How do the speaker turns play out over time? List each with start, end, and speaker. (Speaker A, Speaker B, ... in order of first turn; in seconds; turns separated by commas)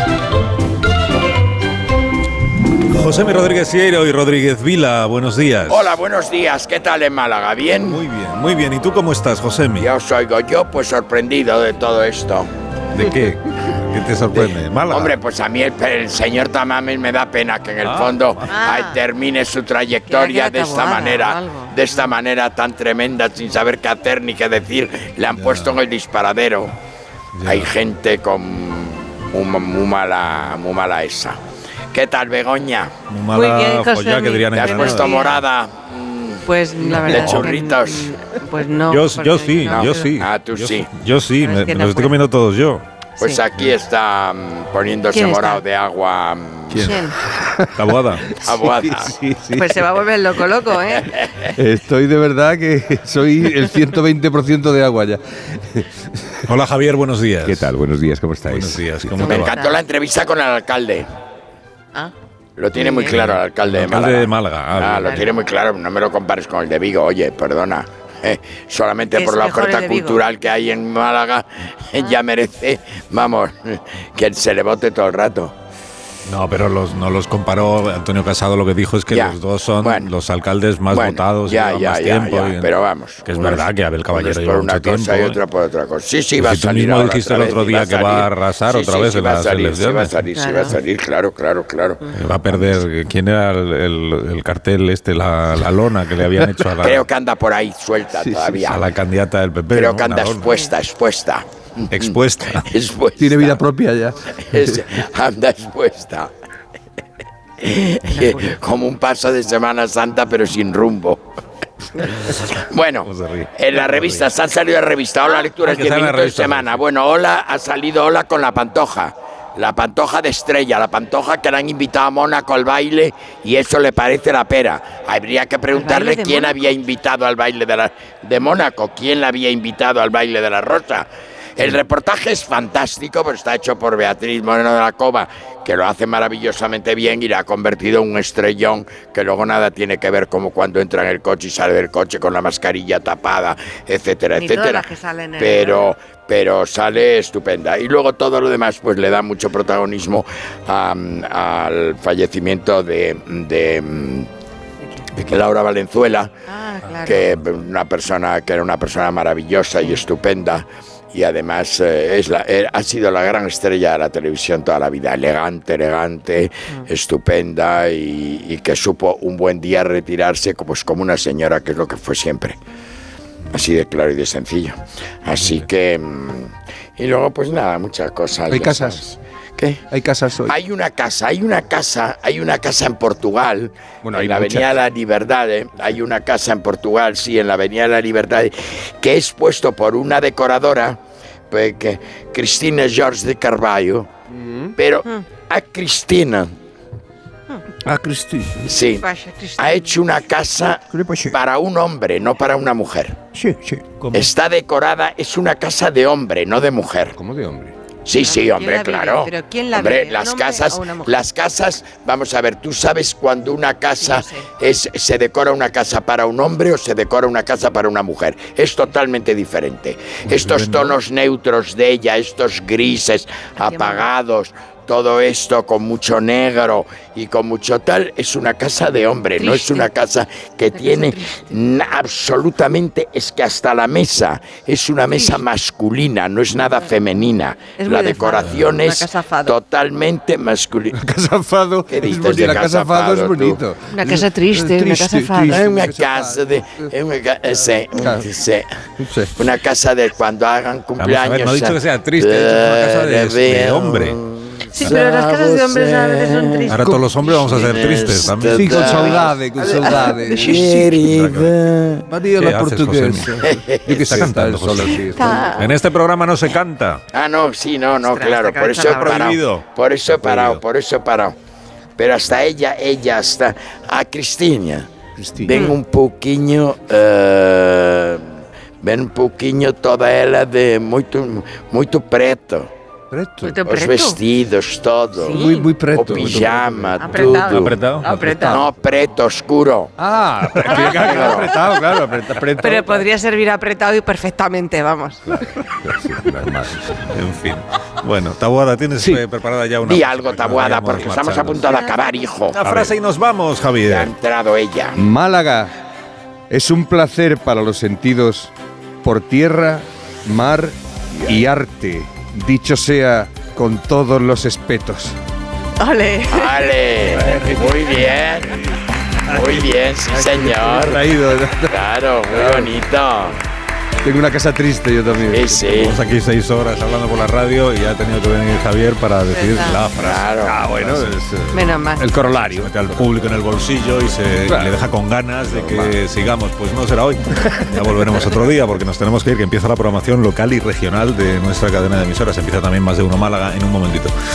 Speaker A: 2.9-5.9, Speaker B: 5.7-8.0, Speaker A: 7.8-9.9, Speaker B: 9.8-12.5, Speaker A: 12.9-15.1, Speaker B: 14.3-26.7, Speaker A: 17.8-18.5, Speaker C: 18.5-19.0, Speaker C: 20.1-21.9, Speaker A: 25.4-25.7, Speaker A: 27.3-27.7, Speaker B: 27.4-31.4, Speaker B: 31.9-32.9, Speaker A: 33.1-35.3, Speaker C: 33.3-35.4, Speaker B: 34.5-36.5, Speaker C: 36.4-40.1, Speaker A: 36.9-37.5, Speaker B: 37.0-38.1, Speaker A: 38.9-42.8, Speaker B: 40.1-40.9, Speaker C: 41.4-42.2, Speaker B: 43.2-47.0, Speaker C: 45.1-45.6, Speaker A: 46.7-47.0, Speaker C: 46.8-47.2, Speaker D: 47.3-47.8, Speaker A: 47.7-48.4, Speaker B: 48.4-49.1, Speaker D: 48.4-49.9, Speaker C: 49.5-51.2, Speaker D: 51.5-56.4, Speaker A: 56.5-57.7, Speaker D: 57.4-59.1, Speaker A: 58.5-59.5, Speaker C: 59.1-59.8, Speaker B: 59.2-61.1, Speaker B: 62.6-75.5, Speaker C: 62.8-63.2, Speaker A: 63.1-65.2, Speaker C: 65.0-65.3, Speaker C: 69.1-70.2, Speaker A: 76.2-82.7, Speaker B: 79.1-80.1, Speaker B: 80.9-92.8, Speaker A: 83.2-85.4, Speaker A: 86.4-90.2, Speaker C: 90.3-90.8, Speaker A: 92.1-97.0, Speaker B: 96.8-98.8, Speaker D: 98.2-98.6, Speaker A: 98.6-100.5, Speaker B: 99.7-103.6, Speaker A: 101.9-102.7, Speaker D: 103.2-104.7, Speaker B: 104.3-106.3, Speaker B: 107.6-111.2, Speaker B: 112.0-154.3, Speaker A: 113.0-114.2, Speaker A: 115.5-116.8, Speaker C: 125.7-126.6, Speaker C: 144.3-145.9, Speaker B: 155.1-156.3, Speaker C: 156.5-157.3, Speaker B: 157.0-172.6, Speaker B: 173.5-179.8, Speaker D: 178.5-179.0, Speaker D: 179.9-180.5, Speaker B: 180.4-191.0, Speaker D: 184.0-184.8, Speaker B: 191.5-194.1, Speaker D: 194.4-194.7, Speaker B: 194.8-196.5, Speaker D: 197.8-198.6, Speaker B: 198.6-203.2, Speaker C: 198.9-200.0, Speaker D: 200.9-201.3, Speaker D: 203.3-204.2, Speaker B: 204.1-207.2, Speaker D: 207.1-207.7, Speaker B: 208.0-241.0, Speaker C: 208.2-211.3, Speaker C: 213.9-214.4, Speaker C: 223.6-224.1, Speaker C: 229.3-229.9, Speaker C: 230.7-231.4, Speaker C: 237.8-239.6, Speaker D: 240.9-246.8, Speaker B: 241.9-243.6, Speaker C: 243.9-245.6, Speaker B: 245.4-248.7, Speaker D: 247.9-248.3, Speaker D: 249.0-249.3, Speaker B: 249.3-262.1, Speaker A: 251.0-254.2, Speaker C: 254.7-257.5, Speaker A: 256.7-258.7, Speaker D: 256.8-257.1, Speaker D: 258.5-261.1, Speaker C: 258.7-260.8, Speaker A: 261.1-261.5, Speaker D: 262.1-265.5, Speaker A: 262.4-263.4, Speaker B: 263.4-264.3, Speaker A: 263.9-267.0, Speaker C: 264.9-265.8, Speaker B: 267.1-271.3, Speaker C: 268.0-269.4, Speaker A: 268.8-269.6, Speaker A: 270.3-270.6, Speaker B: 272.0-274.9, Speaker D: 275.2-275.5, Speaker B: 275.4-282.7, Speaker C: 275.5-275.8, Speaker D: 283.1-283.6, Speaker C: 283.4-284.2, Speaker B: 283.6-287.8, Speaker C: 285.2-285.7, Speaker D: 285.2-287.5, Speaker C: 287.0-288.6, Speaker A: 287.5-288.1, Speaker D: 288.1-288.7, Speaker B: 288.4-289.9, Speaker D: 290.0-293.1, Speaker B: 290.6-291.6, Speaker A: 290.7-291.1, Speaker C: 290.7-291.9, Speaker C: 292.6-295.4, Speaker D: 295.3-297.0, Speaker A: 297.1-301.7, Speaker D: 299.0-299.2, Speaker B: 299.8-302.6, Speaker C: 301.6-302.0, Speaker A: 302.5-304.1, Speaker B: 303.9-305.0, Speaker D: 304.9-305.7, Speaker D: 306.5-315.1, Speaker C: 315.8-316.7, Speaker B: 316.3-318.6, Speaker B: 319.2-321.0, Speaker D: 320.1-322.7, Speaker B: 321.6-323.4, Speaker D: 324.0-325.9, Speaker B: 325.3-326.0, Speaker A: 325.7-331.2, Speaker C: 329.3-329.9, Speaker B: 330.0-330.6, Speaker D: 330.4-333.0, Speaker C: 331.5-332.1, Speaker A: 332.4-344.1, Speaker D: 334.4-334.9, Speaker D: 335.4-336.0